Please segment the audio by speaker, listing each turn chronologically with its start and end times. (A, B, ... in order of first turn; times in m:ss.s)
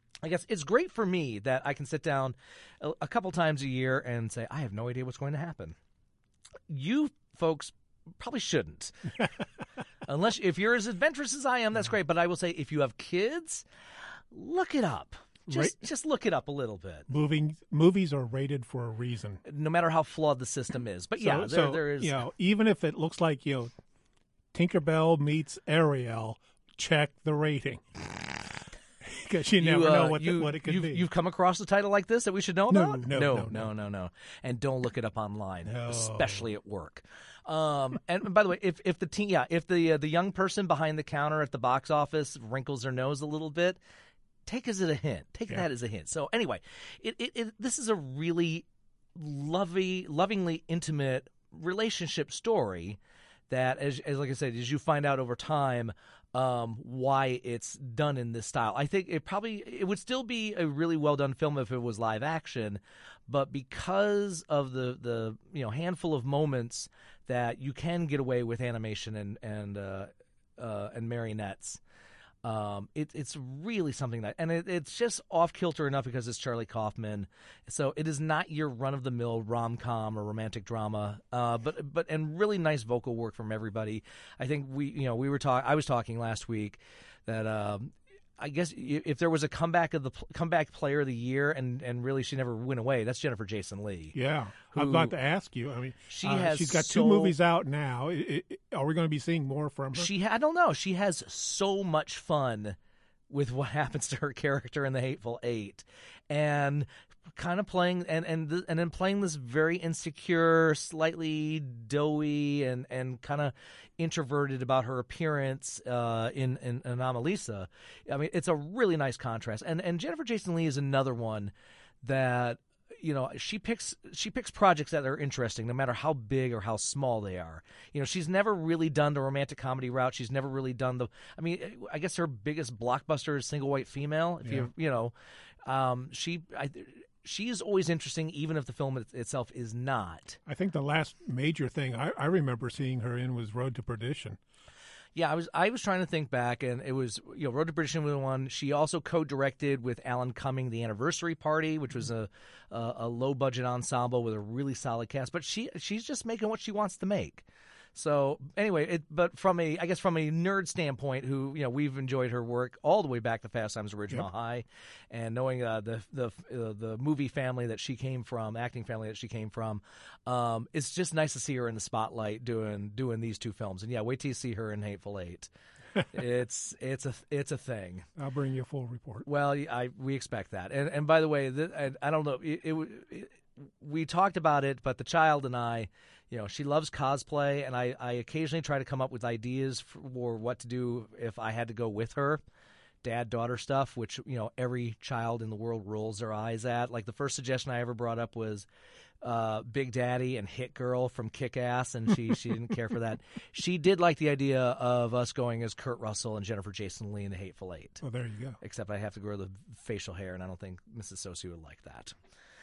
0:00.2-0:05.8 A
0:06.7-0:09.1 A
0:10.0-0:13.6 A
0:14.3-0:17.1 A
0:15.5-0:15.8 B
0:17.1-0:19.4 B
0:19.4-0:22.2 A
0:21.2-0:23.7 B
0:24.5-0:28.1 B
0:29.0-0:31.1 B
0:29.6-0:43.8 A
0:32.7-0:33.7 B
0:35.6-0:36.4 B
0:44.4-0:53.0 A
0:53.5-1:11.8 A
1:12.4-1:34.1 A
1:34.1-1:40.1 B
1:34.7-1:35.1 A
1:36.1-1:37.4 A
1:39.9-1:42.8 A
1:43.3-2:15.1 A
2:14.4-2:14.7 B
2:15.6-2:20.4 A
2:20.4-2:24.4 B
2:25.2-2:37.4 A
2:37.9-2:55.5 A
2:56.1-2:58.1 A
2:58.2-2:59.2 B
2:59.2-3:12.4 A
3:13.0-3:18.7 A
3:19.2-3:28.0 A
3:28.0-3:28.6 B
3:28.6-3:32.1 A